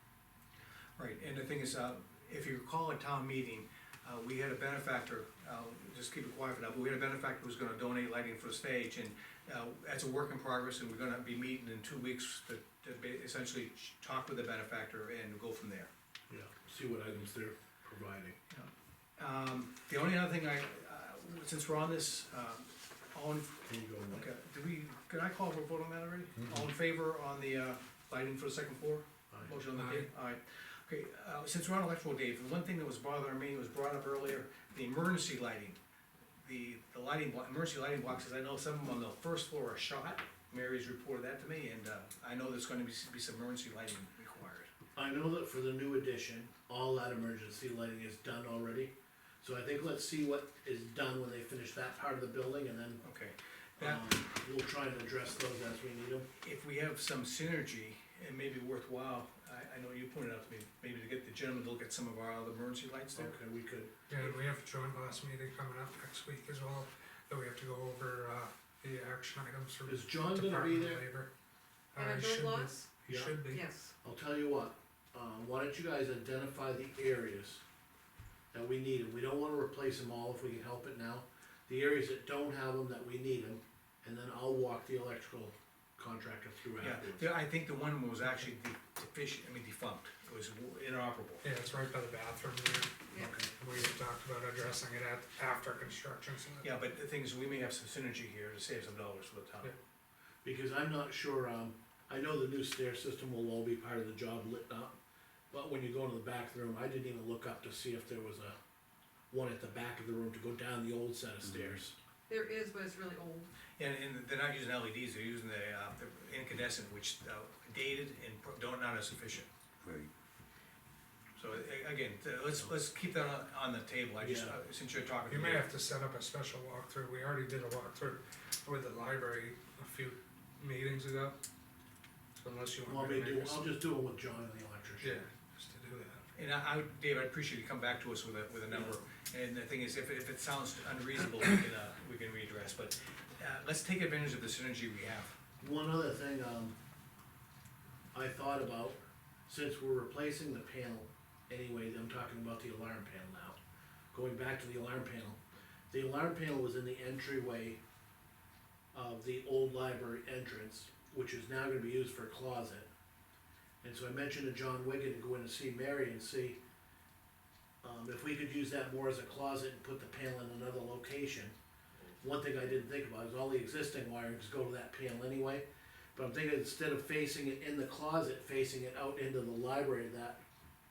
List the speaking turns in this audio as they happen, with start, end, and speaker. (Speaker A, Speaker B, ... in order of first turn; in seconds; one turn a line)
Speaker A: 1.0-15.9
Speaker B: 16.3-18.4
Speaker A: 18.5-35.8
Speaker B: 23.7-24.3
Speaker C: 29.8-30.1
Speaker A: 36.4-44.7
Speaker B: 45.0-53.0
Speaker A: 53.0-54.1
Speaker B: 53.8-56.3
Speaker A: 56.4-63.3
Speaker B: 63.1-64.4
Speaker C: 64.1-71.3
Speaker B: 69.9-71.0
Speaker C: 71.9-73.6
Speaker D: 72.0-72.9
Speaker B: 73.1-73.4
Speaker D: 73.5-73.9
Speaker B: 74.0-77.6
Speaker B: 78.5-87.3
Speaker A: 86.8-91.4
Speaker C: 91.4-96.7
Speaker B: 93.2-93.5
Speaker A: 96.6-99.7
Speaker B: 100.4-105.0
Speaker B: 105.5-108.6
Speaker B: 109.3-112.0
Speaker D: 112.3-113.5
Speaker A: 113.8-119.5
Speaker A: 121.4-125.7
Speaker B: 124.2-124.6
Speaker C: 125.3-131.4
Speaker C: 132.3-133.7
Speaker B: 132.9-135.3
Speaker C: 135.0-136.3
Speaker A: 136.3-145.3
Speaker B: 138.7-139.0
Speaker B: 145.6-146.8
Speaker B: 148.1-153.6
Speaker B: 154.1-155.4
Speaker B: 155.9-157.8
Speaker B: 158.9-162.9
Speaker B: 163.8-166.6
Speaker B: 167.8-171.6
Speaker B: 172.2-180.4